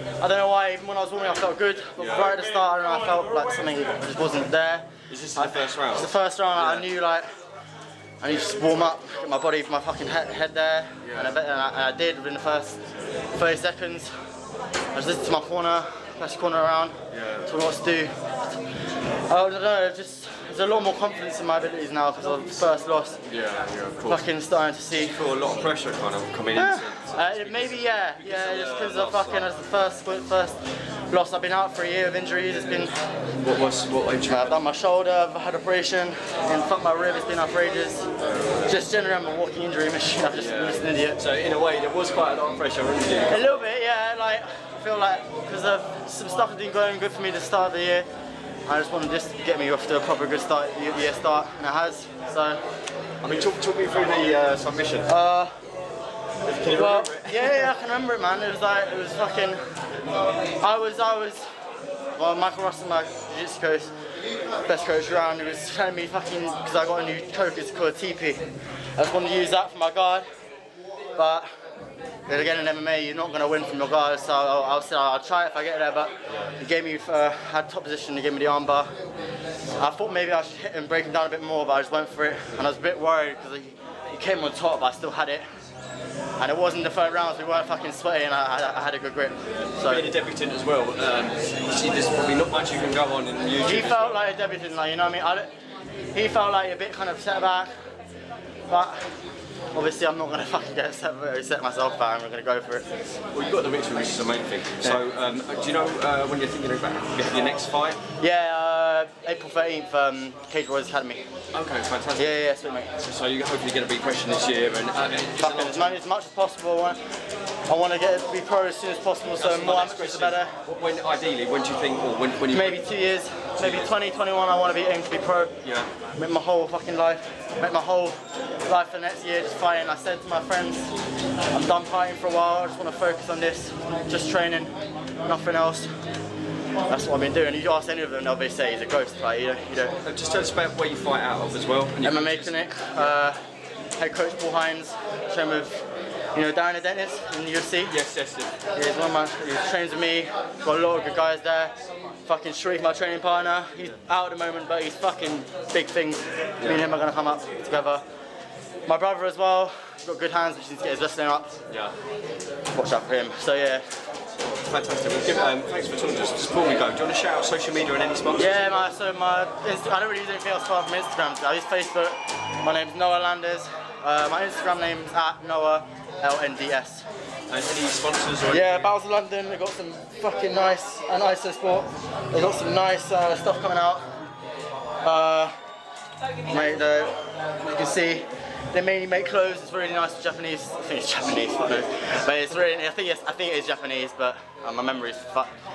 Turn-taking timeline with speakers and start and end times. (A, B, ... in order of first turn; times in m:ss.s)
0:00.2-0:07.3 A
0:02.0-0:02.4 B
0:05.1-0:06.9 B
0:08.2-0:12.8 A
0:11.0-0:11.3 B
0:13.4-0:14.1 A
0:14.9-0:18.1 A
0:17.1-0:17.4 B
0:19.3-0:23.2 A
0:23.3-0:24.2 B
0:24.1-0:25.2 A
0:25.0-0:29.5 B
0:26.6-0:33.0 A
0:33.4-0:34.6 B
0:34.3-0:38.1 A
0:38.6-0:41.2 A
0:40.3-0:43.6 B
0:43.3-0:48.1 A
0:48.7-0:52.6 A
0:53.2-0:55.1 B
0:55.1-0:55.6 A
0:56.4-0:57.7 B
0:56.7-0:59.6 A
1:00.6-1:01.4 A
1:02.2-1:03.9 A
1:04.6-1:10.3 A
1:11.2-1:11.5 A
1:12.3-1:18.9 A
1:19.8-1:25.4 A
1:26.4-1:30.1 A
1:29.8-1:34.2 B
1:33.6-1:35.5 A
1:36.1-1:37.7 A
1:38.7-1:39.2 A
1:39.7-1:43.0 A
1:43.3-1:48.0 B
1:48.2-1:51.3 A
1:51.5-1:52.4 B
1:52.2-1:53.0 A
1:53.0-1:56.0 B
1:55.4-1:57.0 A
1:57.7-2:00.6 A
1:59.4-2:02.8 B
2:02.5-2:05.6 A
2:03.6-2:03.9 B
2:05.6-2:05.9 B
2:06.2-2:08.1 A
2:08.7-2:10.9 A
2:11.5-2:14.7 A
2:15.2-2:15.9 A
2:16.9-2:20.0 A
2:20.0-2:23.1 B
2:22.0-2:23.4 A
2:24.0-2:28.0 A
2:27.9-2:28.6 B
2:28.7-2:31.7 A
2:32.3-2:38.0 A
2:38.9-2:41.6 A
2:41.7-2:42.0 B
2:42.7-2:43.8 A
2:44.5-2:48.9 B
2:48.4-2:57.0 A
2:57.5-2:58.9 B
2:58.5-3:04.1 A
3:05.0-3:05.5 A
3:06.5-3:15.5 A